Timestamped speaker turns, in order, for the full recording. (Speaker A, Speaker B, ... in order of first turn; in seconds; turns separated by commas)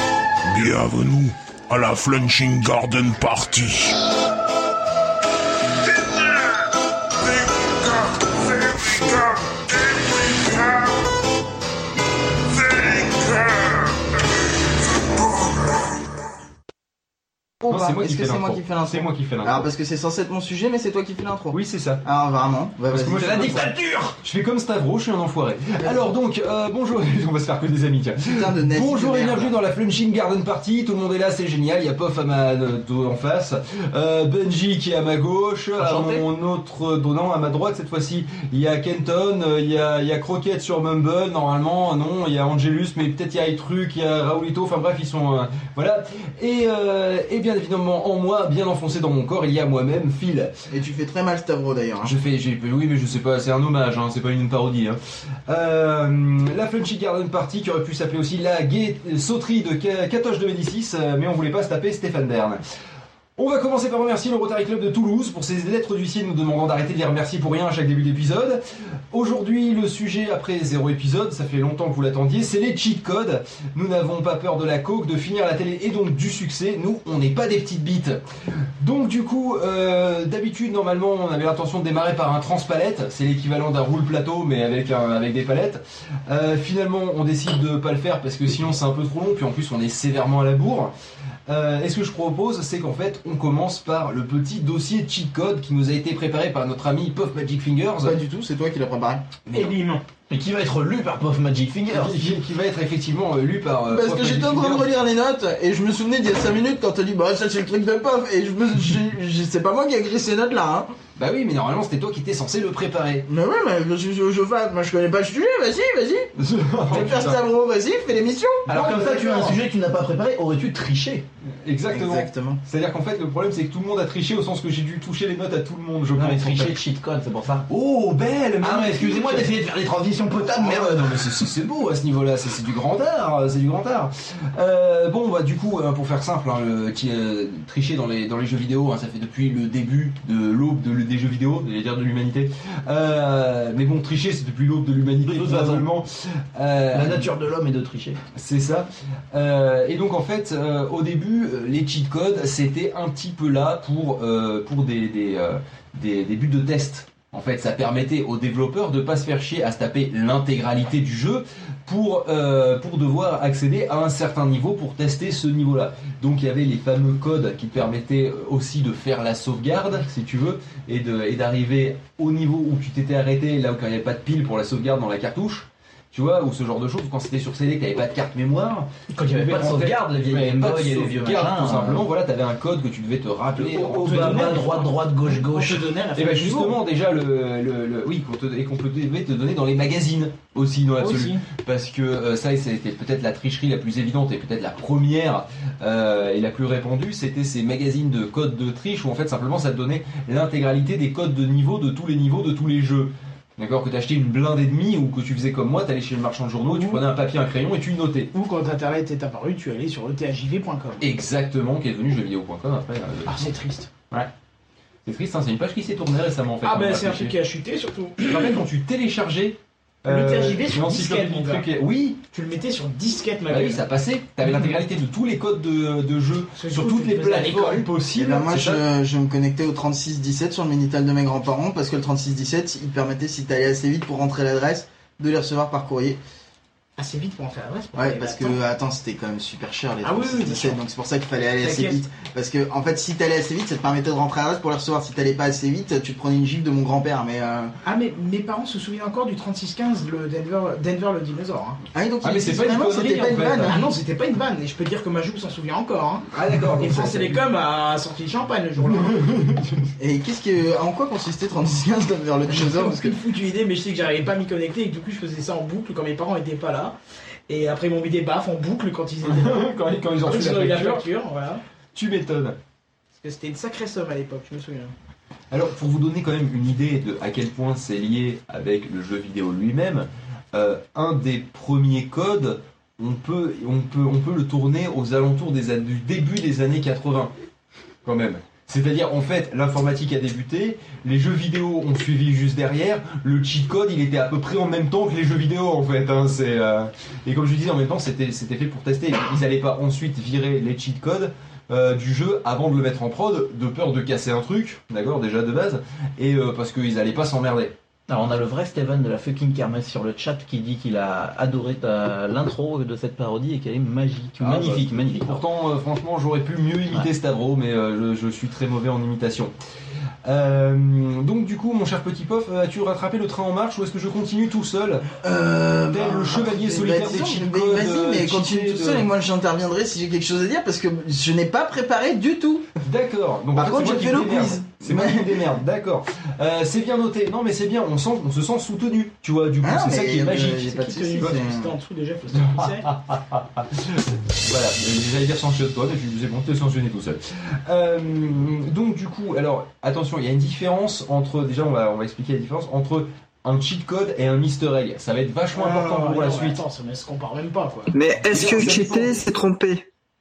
Speaker A: 0.5-4.0, Speaker A: 5.9-6.6, Speaker A: 7.2-11.0, Speaker A: 12.5-13.9, Speaker A: 15.2-15.7, Speaker B: 17.6-23.7, Speaker C: 17.7-19.7, Speaker C: 21.5-22.0, Speaker C: 22.9-50.5, Speaker D: 23.1-24.2, Speaker B: 25.8-26.1, Speaker B: 28.2-29.6, Speaker D: 35.8-36.2, Speaker B: 50.7-52.1, Speaker C: 52.0-62.6, Speaker C: 63.4-78.2, Speaker C: 78.8-90.9, Speaker C: 91.5-98.2, Speaker B: 98.0-99.3, Speaker C: 99.5-99.8, Speaker E: 99.5-100.0, Speaker D: 100.3-102.3, Speaker C: 101.9-104.9, Speaker B: 103.9-110.9, Speaker C: 111.2-113.3, Speaker B: 113.3-116.3, Speaker C: 116.4-117.4, Speaker B: 116.9-119.6, Speaker D: 118.7-121.2, Speaker C: 121.6-126.8, Speaker B: 121.9-122.6, Speaker D: 126.2-127.7, Speaker C: 127.7-129.5, Speaker D: 128.6-131.5, Speaker C: 130.4-147.3, Speaker D: 145.2-145.9, Speaker D: 146.9-148.2, Speaker C: 148.3-184.7, Speaker D: 179.1-182.1, Speaker D: 183.6-185.9, Speaker E: 184.0-186.8, Speaker C: 186.2-208.3, Speaker E: 191.0-191.4, Speaker E: 206.7-207.0, Speaker E: 208.3-211.1, Speaker C: 211.0-213.4, Speaker E: 213.3-213.9, Speaker C: 215.1-217.3, Speaker E: 216.6-218.6, Speaker C: 218.3-222.2, Speaker E: 220.1-221.7, Speaker E: 222.3-223.8, Speaker C: 223.5-228.9, Speaker E: 224.4-224.7, Speaker E: 226.6-227.9, Speaker B: 228.2-236.2, Speaker E: 237.0-238.6, Speaker B: 237.9-247.7, Speaker E: 240.0-240.8, Speaker E: 241.6-242.0, Speaker E: 247.8-251.8, Speaker B: 251.9-253.8, Speaker C: 252.2-253.8, Speaker E: 253.6-256.3, Speaker C: 256.3-257.1, Speaker B: 256.5-257.3, Speaker E: 256.8-259.2, Speaker C: 258.9-259.9, Speaker B: 260.0-263.1, Speaker E: 262.5-266.9, Speaker E: 267.5-269.7, Speaker C: 269.2-271.0, Speaker E: 270.2-271.6, Speaker C: 271.9-272.6, Speaker E: 273.1-274.9, Speaker C: 275.5-287.3, Speaker C: 288.1-307.8, Speaker D: 308.1-315.4, Speaker C: 314.4-319.5, Speaker C: 320.2-325.1, Speaker B: 325.2-332.7, Speaker C: 325.9-329.1, Speaker C: 332.8-340.7, Speaker B: 333.5-335.4, Speaker B: 339.6-341.7, Speaker E: 340.5-343.0, Speaker C: 342.3-356.6, Speaker E: 355.6-359.1, Speaker F: 357.9-359.9, Speaker C: 358.3-358.8